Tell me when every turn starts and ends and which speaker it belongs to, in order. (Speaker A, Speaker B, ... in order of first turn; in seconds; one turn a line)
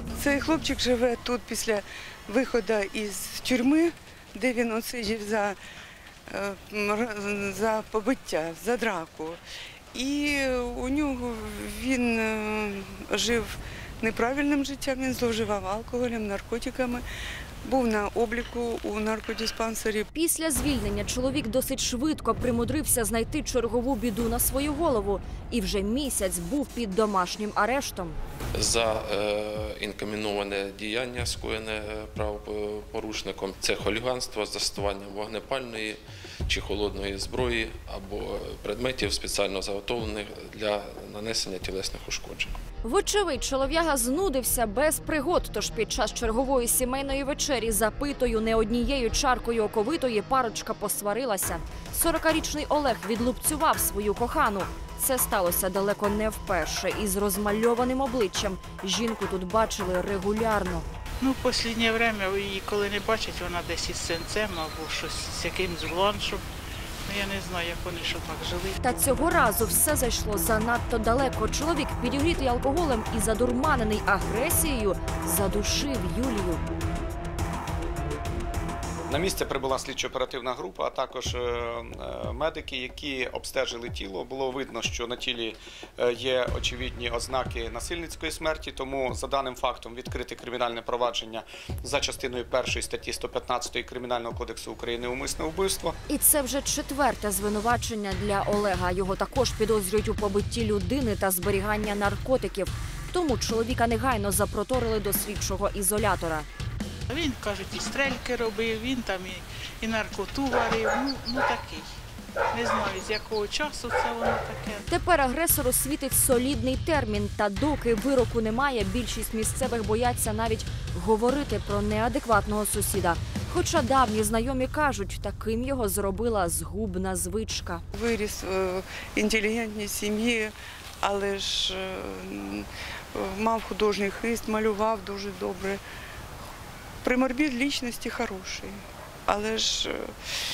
Speaker A: 0.1-5.6
Speaker A: 6.3-9.4
Speaker A: 9.9-17.0
Speaker A: 17.6-20.1
Speaker B: 20.1-28.2
Speaker C: 28.5-42.6
Speaker B: 42.8-60.9
Speaker D: 61.2-66.4
Speaker D: 67.0-68.8
Speaker B: 68.8-76.6
Speaker E: 79.1-95.9
Speaker B: 96.1-106.5
Speaker D: 107.1-111.9
Speaker D: 112.5-114.8
Speaker B: 114.9-127.8
Speaker A: 127.9-135.8
Speaker A: 137.0-140.1